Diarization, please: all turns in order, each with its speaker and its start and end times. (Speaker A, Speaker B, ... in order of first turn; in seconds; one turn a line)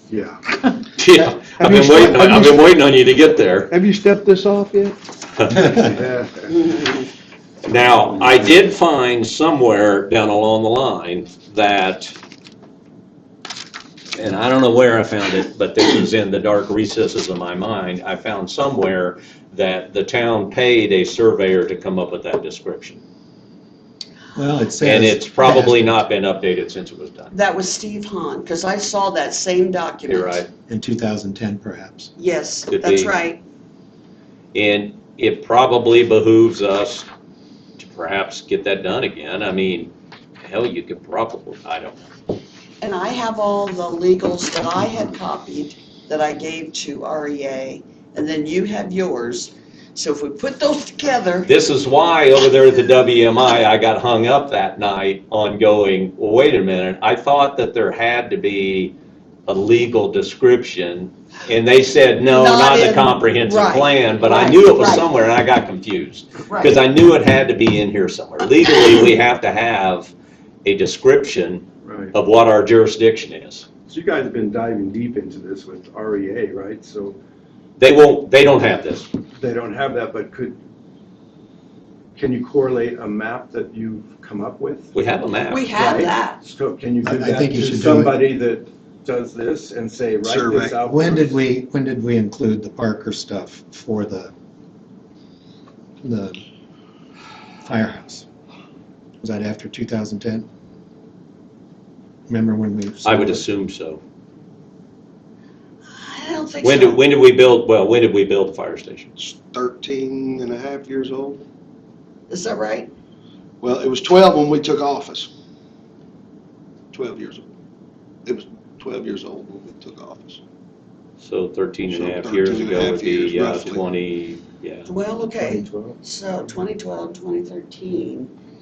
Speaker A: 0.1-0.7
Speaker B: 0.9-3.7
Speaker A: 1.4-2.7
Speaker C: 3.7-5.0
Speaker A: 5.5-6.7
Speaker B: 7.6-12.2
Speaker B: 14.1-23.0
Speaker D: 24.3-26.0
Speaker B: 24.8-27.3
Speaker E: 27.3-30.4
Speaker B: 30.1-30.5
Speaker D: 30.7-32.1
Speaker E: 32.2-33.4
Speaker B: 32.7-33.1
Speaker B: 34.5-37.1
Speaker B: 37.8-42.1
Speaker E: 42.8-51.5
Speaker B: 51.5-58.9
Speaker B: 59.5-70.1
Speaker E: 62.3-65.0
Speaker E: 66.5-66.8
Speaker B: 70.6-73.7
Speaker A: 71.8-72.1
Speaker A: 73.9-77.2
Speaker B: 77.8-79.1
Speaker A: 79.3-80.6
Speaker A: 82.1-84.9
Speaker B: 84.9-85.7
Speaker E: 85.5-86.4
Speaker A: 85.7-91.4
Speaker D: 87.0-88.1
Speaker C: 90.2-90.8
Speaker D: 90.8-94.3
Speaker D: 96.0-96.4
Speaker D: 97.6-98.2
Speaker D: 99.2-100.5
Speaker D: 102.3-103.4
Speaker B: 103.0-104.0
Speaker E: 105.9-107.0
Speaker B: 106.6-109.1
Speaker C: 109.2-111.4
Speaker E: 112.3-112.9
Speaker C: 113.6-115.3
Speaker C: 116.9-117.5
Speaker C: 118.2-120.4
Speaker B: 121.2-124.9
Speaker C: 121.9-123.8
Speaker E: 124.8-128.3
Speaker A: 125.3-126.0